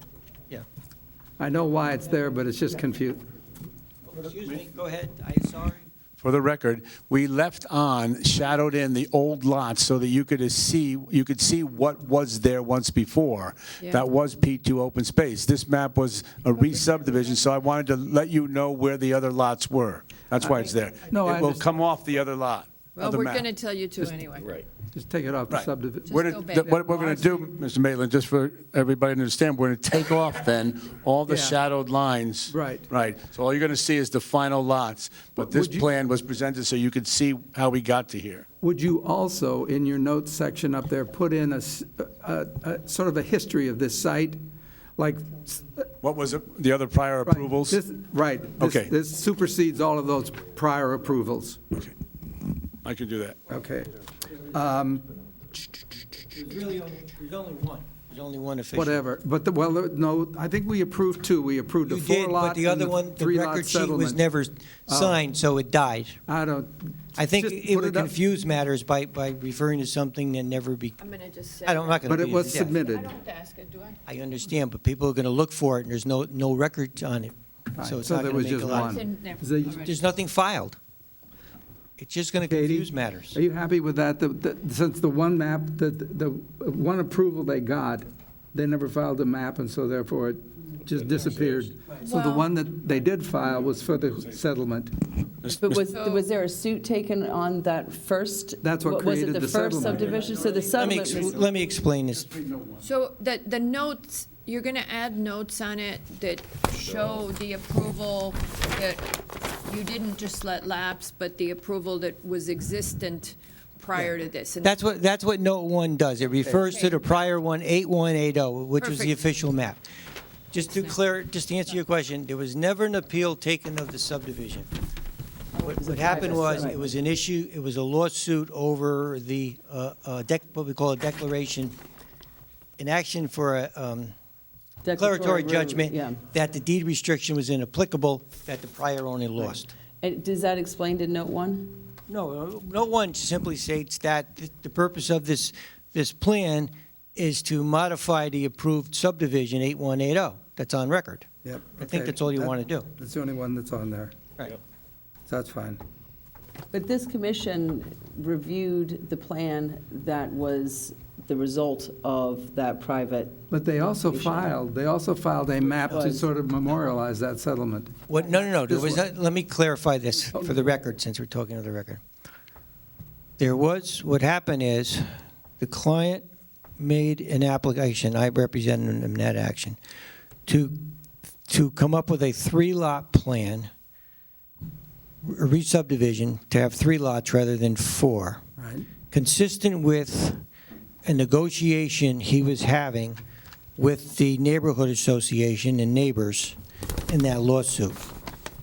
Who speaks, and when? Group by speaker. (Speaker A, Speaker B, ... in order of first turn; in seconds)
Speaker A: 1.4-3.2, 20.4-21.6, 24.8-27.4, 31.3-31.6, 32.5-32.9, 35.4-35.9, 38.6-44.4, 45.0-45.9, 47.2-51.6, 53.5-53.9, 54.4-55.1, 58.7-64.2, 64.9-65.2, 66.3-68.1, 72.0-73.1, 77.8-79.9, 82.5-94.9, 98.6-101.3, 151.4-154.1, 155.3-155.8, 163.5-167.9, 168.5-169.0, 188.6-188.9
Speaker B: 4.0-5.8, 56.3-59.0, 61.8-66.2, 67.2-71.0, 71.6-72.8, 74.1-79.0, 79.8-80.8, 82.0-83.3, 100.7-102.3, 113.9-119.8, 120.5-124.7, 125.6-131.7, 132.8-134.1, 134.9-139.7, 142.1-151.3, 151.8-152.9, 168.1-172.0, 173.4-175.1, 175.6-176.2, 176.8-179.8, 180.4-180.8, 181.5-183.7, 185.2-188.4, 189.1-190.4, 191.0-193.2, 193.8-196.6, 197.1-198.1
Speaker C: 6.2-23.5, 25.5-38.4, 46.0-47.8, 48.6-48.9, 52.8-53.4, 95.4-95.8, 102.4-102.7
Speaker D: 13.8-14.1, 22.9-24.6, 26.1-27.2, 71.0-74.0, 78.7-79.9, 92.0-92.5, 95.9-96.2, 102.8-114.8, 116.5-117.2, 118.8-119.2
Speaker E: 95.5-101.3, 125.6-126.8, 134.8-136.2, 140.0-141.9, 156.7-163.4, 164.1-164.5, 165.9-166.3